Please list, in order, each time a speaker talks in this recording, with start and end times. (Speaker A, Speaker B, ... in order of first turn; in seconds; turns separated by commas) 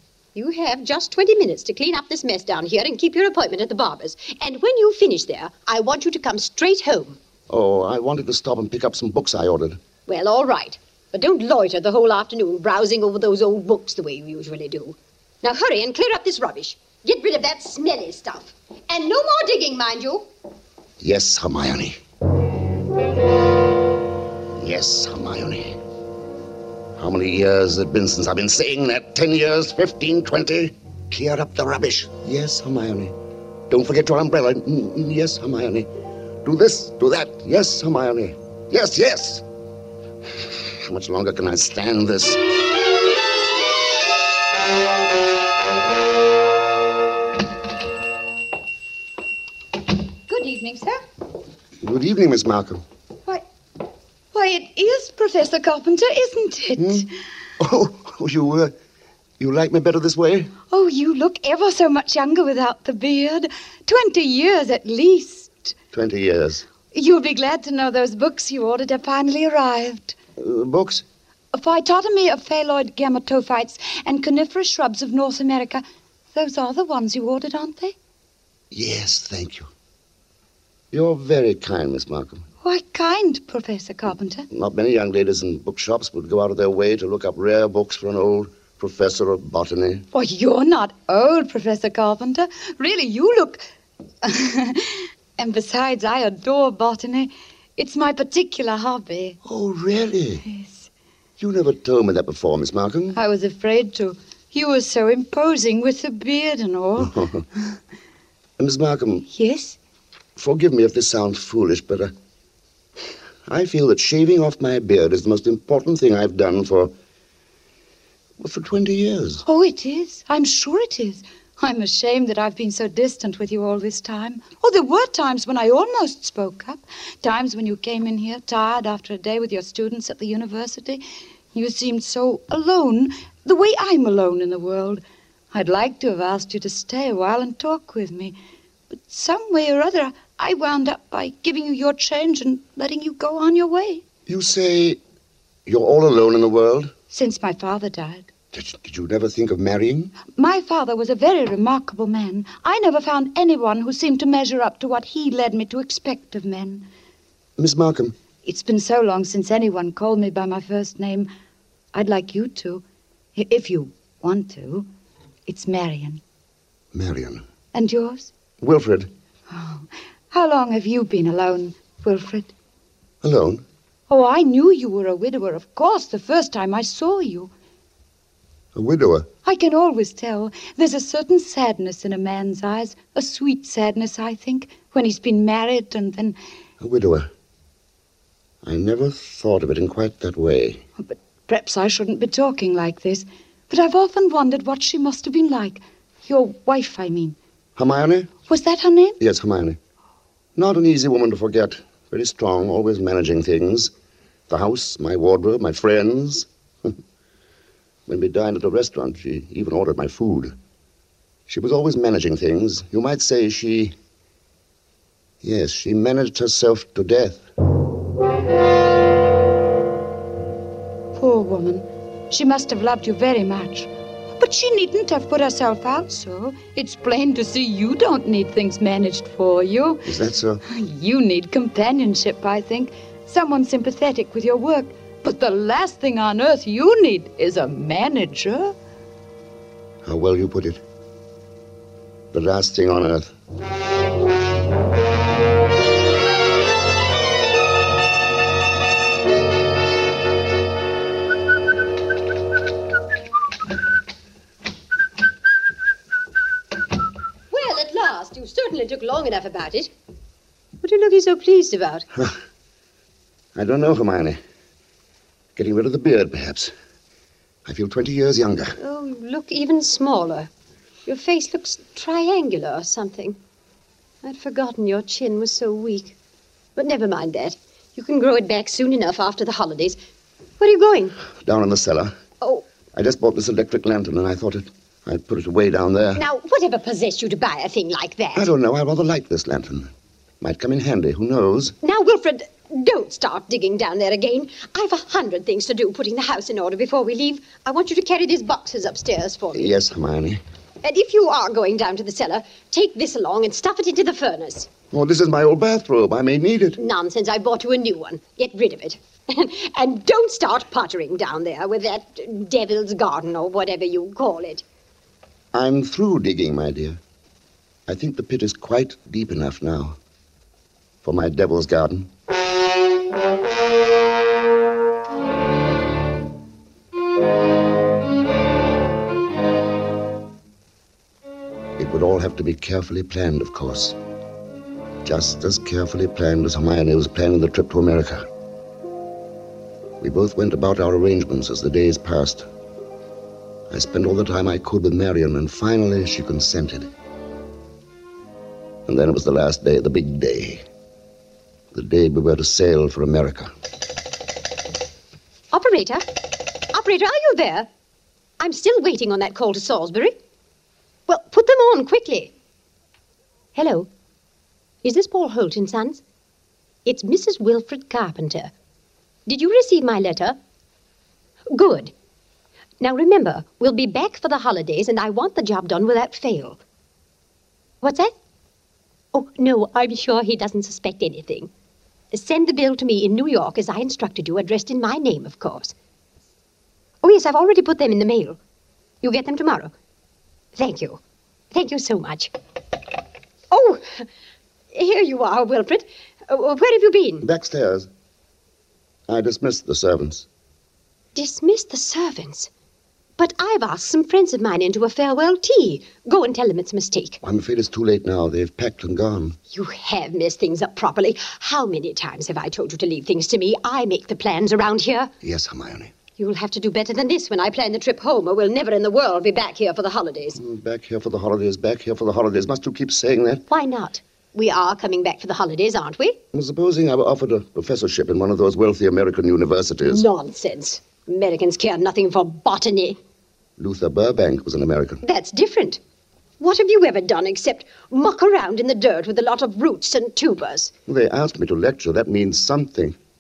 Speaker A: 0.3-7.2, Speaker B: 7.5-9.8, Speaker A: 10.1-20.3, Speaker B: 21.0-22.0, Speaker B: 24.6-25.8, Speaker B: 27.0-33.2, Speaker B: 33.7-35.9, Speaker B: 36.4-39.5, Speaker B: 40.7-42.4, Speaker C: 50.3-51.0, Speaker B: 51.8-52.8, Speaker C: 54.3-57.1, Speaker B: 56.8-57.1, Speaker B: 57.6-58.7, Speaker B: 59.4-60.5, Speaker C: 60.7-65.7, Speaker B: 65.9-66.7, Speaker C: 66.9-70.2, Speaker B: 70.4-71.0, Speaker C: 71.5-75.8, Speaker C: 76.3-78.0, Speaker B: 78.7-79.7, Speaker B: 80.9-82.5, Speaker C: 82.6-84.5, Speaker B: 84.5-90.1, Speaker C: 90.1-93.7, Speaker C: 94.2-99.4, Speaker B: 99.5-100.5, Speaker C: 100.5-100.9, Speaker B: 101.4-103.2, Speaker C: 103.1-107.2, Speaker B: 107.1-107.4, Speaker B: 108.6-109.3, Speaker C: 109.3-109.8, Speaker B: 110.4-112.1, Speaker B: 113.5-116.9, Speaker B: 118.4-119.4, Speaker C: 119.5-131.0, Speaker C: 131.5-138.3, Speaker C: 138.9-144.0, Speaker B: 144.3-145.0, Speaker B: 145.7-146.9, Speaker C: 147.1-148.3, Speaker B: 148.5-150.1, Speaker C: 150.3-156.9, Speaker B: 157.6-158.2, Speaker C: 158.4-161.3, Speaker C: 161.9-162.8, Speaker C: 163.4-164.9, Speaker C: 165.5-166.2, Speaker B: 166.9-167.4, Speaker C: 167.7-168.3, Speaker B: 168.6-169.1, Speaker C: 169.5-172.5, Speaker B: 173.2-173.6, Speaker C: 174.1-177.5, Speaker B: 178.7-179.3, Speaker C: 179.4-186.4, Speaker B: 186.8-187.3, Speaker B: 188.6-190.8, Speaker C: 191.0-197.4, Speaker B: 197.8-198.3, Speaker C: 198.5-199.2, Speaker B: 199.2-199.8, Speaker B: 200.6-203.9, Speaker B: 204.5-206.9, Speaker B: 208.1-210.6, Speaker B: 211.5-214.0, Speaker B: 215.4-217.5, Speaker C: 221.2-230.1, Speaker B: 230.1-230.6, Speaker C: 230.7-238.8, Speaker B: 240.0-240.8, Speaker B: 242.3-243.3, Speaker A: 257.5-259.9, Speaker A: 260.8-262.1, Speaker B: 263.6-264.4, Speaker B: 265.6-266.7, Speaker B: 267.7-268.8, Speaker A: 268.8-270.5, Speaker A: 271.1-273.4, Speaker A: 274.2-276.2, Speaker A: 276.8-280.0, Speaker A: 280.6-281.2, Speaker B: 281.4-282.1, Speaker B: 282.9-286.2, Speaker A: 286.2-288.5, Speaker B: 288.4-291.8, Speaker A: 291.8-299.7, Speaker B: 299.5-300.4, Speaker A: 300.8-304.7, Speaker B: 304.9-306.8, Speaker A: 306.8-314.6, Speaker B: 315.5-317.0, Speaker B: 317.9-320.0, Speaker B: 321.0-322.1, Speaker B: 331.8-334.0, Speaker B: 335.0-338.2, Speaker B: 340.0-342.5, Speaker B: 343.7-346.9, Speaker B: 348.9-350.6, Speaker B: 351.7-353.5, Speaker A: 355.5-357.7, Speaker A: 358.4-360.1, Speaker A: 361.1-362.3, Speaker A: 363.6-363.9, Speaker A: 364.8-366.0, Speaker A: 366.9-368.5, Speaker A: 369.3-370.4, Speaker A: 371.5-371.9, Speaker A: 372.8-376.6, Speaker A: 377.8-378.1, Speaker A: 379.1-381.5, Speaker A: 382.1-385.8, Speaker A: 387.0-388.4, Speaker A: 389.0-389.7, Speaker A: 390.6-391.0, Speaker A: 391.5-392.3, Speaker A: 393.5-394.1, Speaker A: 394.7-397.3, Speaker B: 397.2-397.9, Speaker B: 399.1-400.3, Speaker A: 401.1-402.5, Speaker A: 403.2-407.2, Speaker B: 407.2-409.4, Speaker A: 409.5-415.1, Speaker B: 415.2-415.9, Speaker A: 416.2-420.4, Speaker B: 420.4-423.4, Speaker A: 423.5-426.2, Speaker B: 426.3-430.1, Speaker A: 429.9-433.0, Speaker B: 433.6-435.0, Speaker A: 435.0-435.8, Speaker A: 436.4-440.7, Speaker B: 440.9-443.0